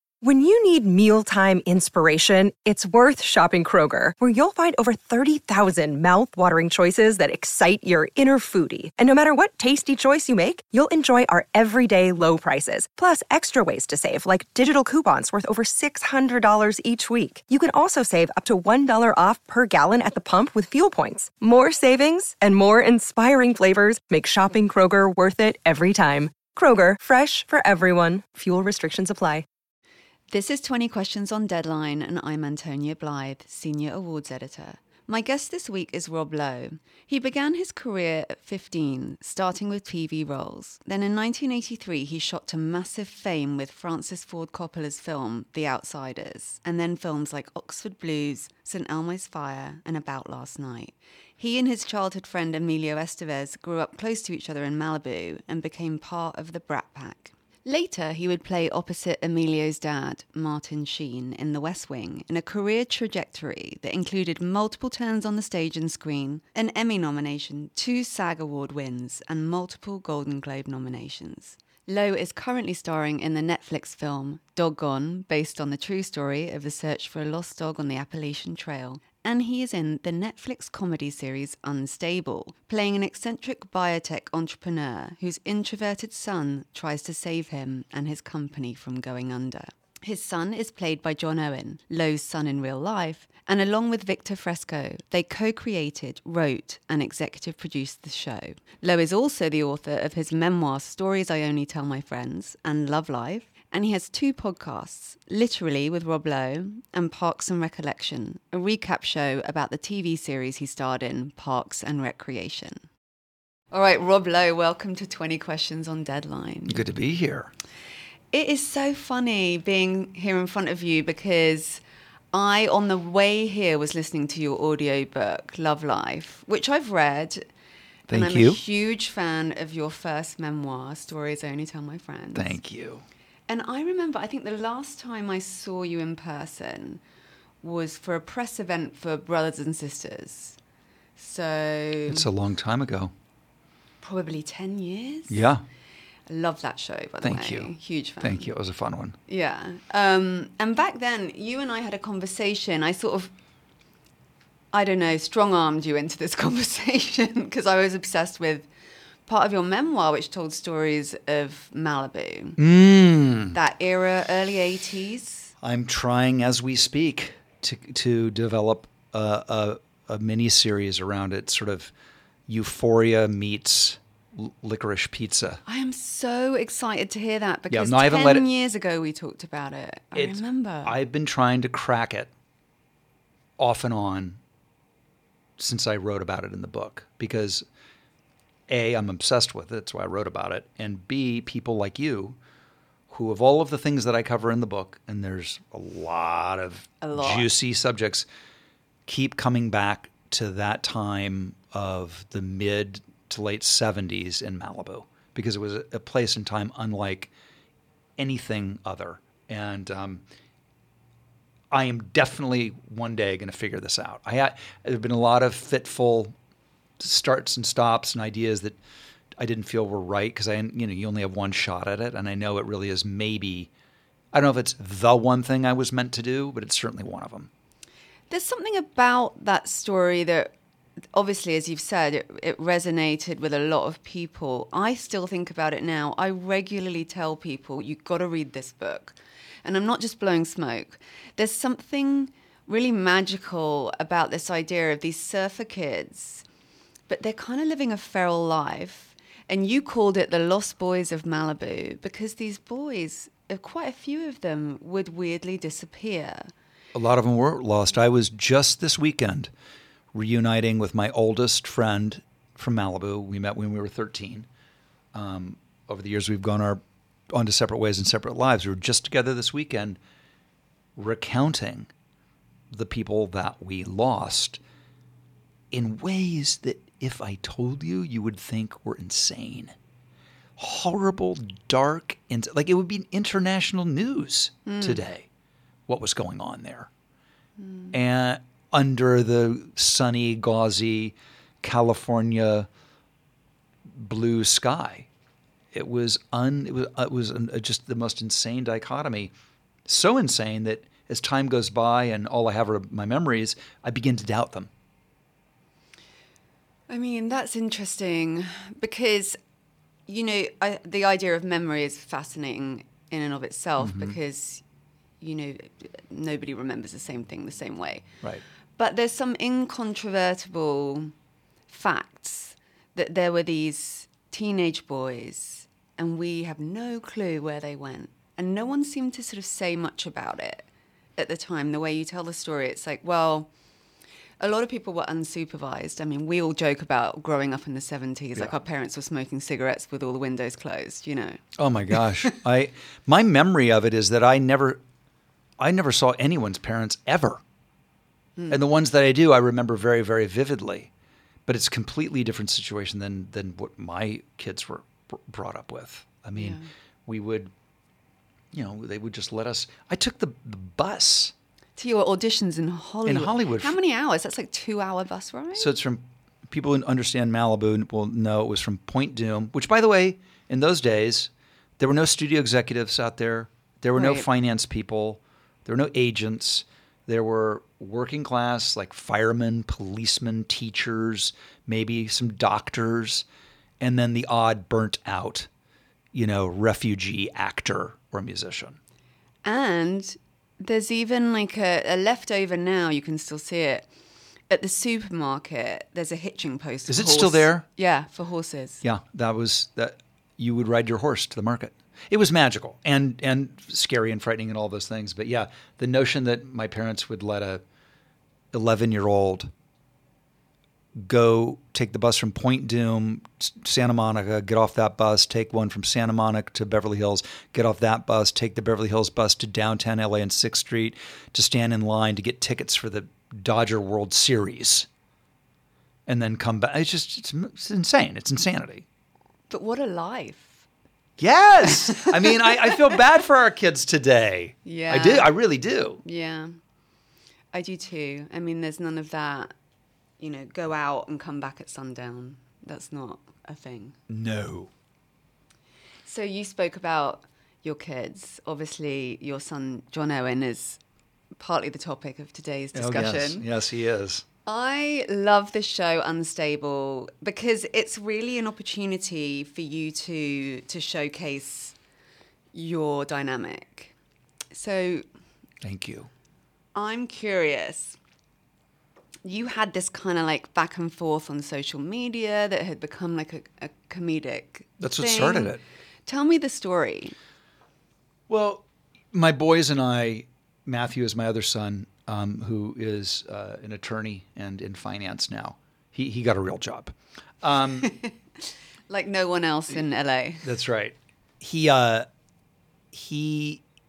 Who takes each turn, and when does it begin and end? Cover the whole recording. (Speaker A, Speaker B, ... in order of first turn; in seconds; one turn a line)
Speaker A: 0.2-29.4
Speaker B: 30.3-112.8
Speaker B: 113.7-116.8
Speaker C: 116.7-117.5
Speaker B: 118.3-121.8
Speaker B: 122.3-127.5
Speaker C: 128.1-128.6
Speaker B: 128.1-132.6
Speaker C: 132.3-133.0
Speaker B: 133.5-137.0
Speaker B: 137.6-140.6
Speaker B: 141.2-142.3
Speaker C: 142.1-143.1
Speaker B: 144.0-145.5
Speaker C: 145.3-145.6
Speaker B: 146.3-148.5
Speaker C: 147.2-149.2
Speaker B: 149.3-153.3
Speaker B: 154.7-158.7
Speaker B: 159.3-162.6
Speaker C: 162.6-163.6
Speaker B: 163.5-165.5
Speaker C: 165.6-171.9
Speaker C: 172.5-175.6
Speaker B: 175.7-181.0
Speaker C: 177.7-178.5
Speaker C: 180.1-182.3
Speaker C: 183.6-184.4
Speaker C: 185.6-187.7
Speaker C: 188.7-192.4
Speaker C: 193.1-198.2
Speaker B: 197.0-197.5
Speaker C: 199.1-207.3
Speaker C: 208.2-210.2
Speaker C: 211.7-216.3
Speaker C: 217.0-218.8
Speaker C: 219.4-223.7
Speaker C: 224.3-227.5
Speaker B: 228.3-230.5
Speaker B: 231.1-246.4
Speaker B: 247.1-256.5
Speaker C: 256.9-259.5
Speaker C: 260.1-264.5
Speaker C: 265.1-270.0
Speaker C: 270.9-271.9
Speaker C: 272.7-274.6
Speaker C: 275.7-279.7
Speaker C: 280.6-285.3
Speaker B: 284.6-285.0
Speaker C: 285.9-286.9
Speaker B: 287.6-287.9
Speaker C: 287.9-292.7
Speaker C: 293.9-295.1
Speaker C: 295.7-299.3
Speaker C: 299.9-304.7
Speaker B: 306.9-309.4
Speaker B: 310.1-314.6
Speaker C: 313.8-314.2
Speaker B: 315.2-318.1
Speaker B: 318.8-321.1
Speaker B: 321.7-333.5
Speaker B: 334.4-342.3
Speaker C: 341.6-344.8
Speaker C: 345.6-347.4
Speaker C: 348.5-350.9
Speaker C: 351.4-357.5
Speaker B: 356.4-356.7
Speaker C: 358.5-361.3
Speaker B: 361.8-365.7
Speaker C: 363.0-363.8
Speaker C: 365.6-383.2
Speaker B: 373.9-374.3
Speaker C: 383.8-385.5
Speaker C: 386.1-388.8
Speaker B: 389.4-393.9
Speaker B: 394.5-398.8
Speaker C: 396.9-397.6
Speaker C: 398.8-407.6
Speaker C: 408.5-409.5
Speaker C: 410.9-424.9
Speaker C: 426.1-428.8
Speaker B: 429.5-430.6
Speaker C: 431.2-436.0
Speaker B: 431.7-432.9
Speaker B: 434.6-435.4
Speaker B: 436.0-436.6
Speaker B: 437.5-439.5
Speaker B: 440.2-444.0
Speaker C: 444.1-444.7
Speaker B: 446.1-450.8
Speaker B: 451.4-453.4
Speaker C: 452.7-454.2
Speaker B: 454.4-461.7
Speaker B: 462.5-463.9
Speaker B: 464.5-465.0
Speaker C: 465.6-466.1
Speaker B: 466.7-468.0
Speaker B: 469.2-477.1
Speaker C: 474.8-475.6
Speaker C: 478.3-487.9
Speaker B: 487.8-488.1
Speaker B: 488.9-490.5
Speaker C: 490.4-492.1
Speaker C: 492.9-493.6